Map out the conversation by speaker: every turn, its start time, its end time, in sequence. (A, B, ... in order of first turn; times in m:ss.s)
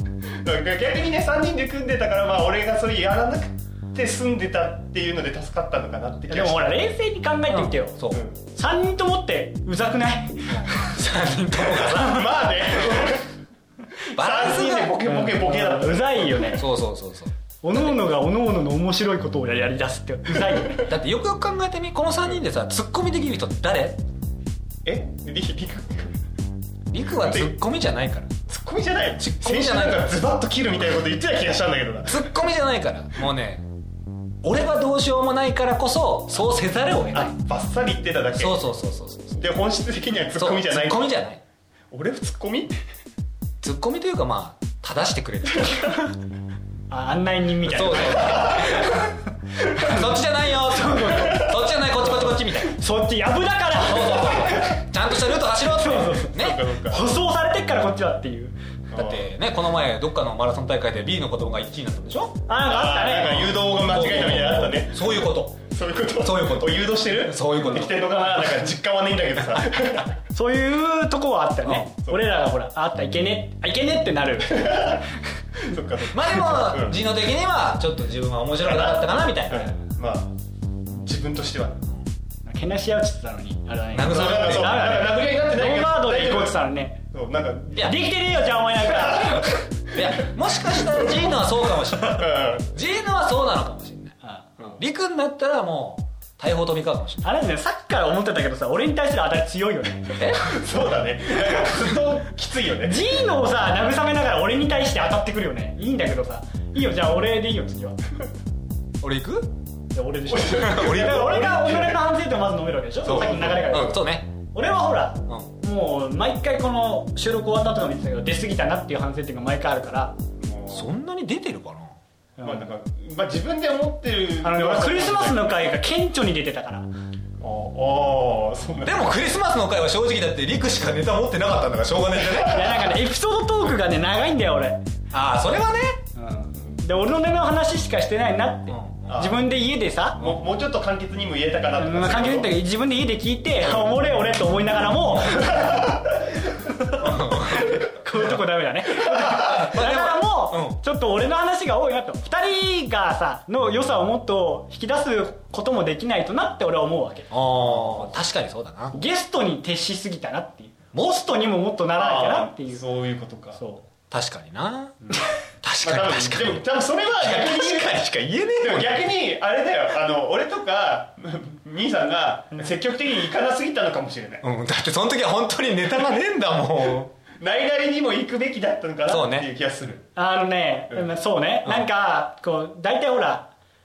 0:00.4-0:06.8 A
0:06.3-0:08.0 B
0:07.5-0:08.2 C
0:08.1-0:08.4 A
0:08.5-0:12.8 B
0:10.8-0:12.2 C
0:12.0-0:13.2 A
0:14.1-0:16.6 A
0:14.1-0:15.0 C
0:15.0-0:16.6 B
0:16.5-0:17.9 C
0:17.6-0:20.9 B
0:20.8-0:24.0 C
0:24.8-0:26.2 A
0:26.9-0:28.3 C
0:27.1-0:27.5 A
0:28.5-0:32.3 A
0:29.2-0:30.1 C
0:32.0-0:33.7 C
0:34.4-0:37.3 C
0:37.1-0:38.6 A
0:38.4-0:39.5 C
0:39.4-0:41.2 A
0:40.3-0:41.4 C
0:41.9-0:42.8 A
0:43.6-0:46.2 C
0:46.9-0:49.0 B
0:47.6-0:49.1 C
0:47.9-0:48.9 A
0:49.8-0:52.8 C
0:50.7-0:51.5 B
0:52.4-0:54.8 B
0:53.8-0:56.6 C
0:55.6-0:58.6 B
0:56.2-0:57.0 A
0:58.9-0:59.3 A
0:59.0-1:02.4 C
1:02.5-1:03.6 B
1:02.6-1:10.1 A
1:03.6-1:05.6 C
1:06.2-1:07.9 C
1:10.3-1:15.0 B
1:14.5-1:15.0 A
1:15.6-1:17.0 A
1:16.1-1:19.7 C
1:18.6-1:20.3 A
1:20.9-1:21.8 A
1:22.4-1:27.0 B
1:23.9-1:24.8 C
1:24.0-1:26.6 A
1:27.1-1:27.9 A
1:27.8-1:29.6 B
1:28.8-1:29.3 A
1:29.9-1:34.1 C
1:30.9-1:31.2 A
1:32.0-1:32.7 A
1:34.7-1:37.3 C
1:37.2-1:40.6 B
1:40.1-1:40.4 C
1:40.4-1:43.0 A
1:42.8-1:48.0 B
1:49.0-1:49.5 C
1:49.9-2:00.2 B
1:50.3-1:52.0 A
1:50.6-1:51.2 C
1:53.0-1:54.0 A
1:53.0-1:54.3 C
2:00.4-2:00.9 A
2:00.7-2:01.9 C
2:02.4-2:02.7 B
2:02.4-2:05.6 A
2:04.4-2:06.9 B
2:07.4-2:09.1 A
2:08.8-2:13.0 C
2:12.4-2:12.7 A
2:12.4-2:14.8 B
2:15.1-2:16.0 C
2:16.1-2:20.2 B
2:18.7-2:19.2 C
2:19.1-2:19.4 A
2:20.2-2:22.6 A
2:21.8-2:37.3 B
2:27.0-2:27.8 C
2:29.3-2:30.8 C
2:37.3-2:39.0 C
2:37.6-2:38.2 A
2:38.9-2:42.8 B
2:40.9-2:41.2 C
2:41.9-2:43.6 A
2:43.6-2:43.8 B
2:44.1-2:45.0 C
2:45.6-2:49.0 C
2:45.8-2:48.0 A
2:48.6-2:54.4 A
2:54.4-2:57.1 C
2:57.4-3:00.1 A
2:59.1-2:59.5 C
3:00.2-3:03.5 B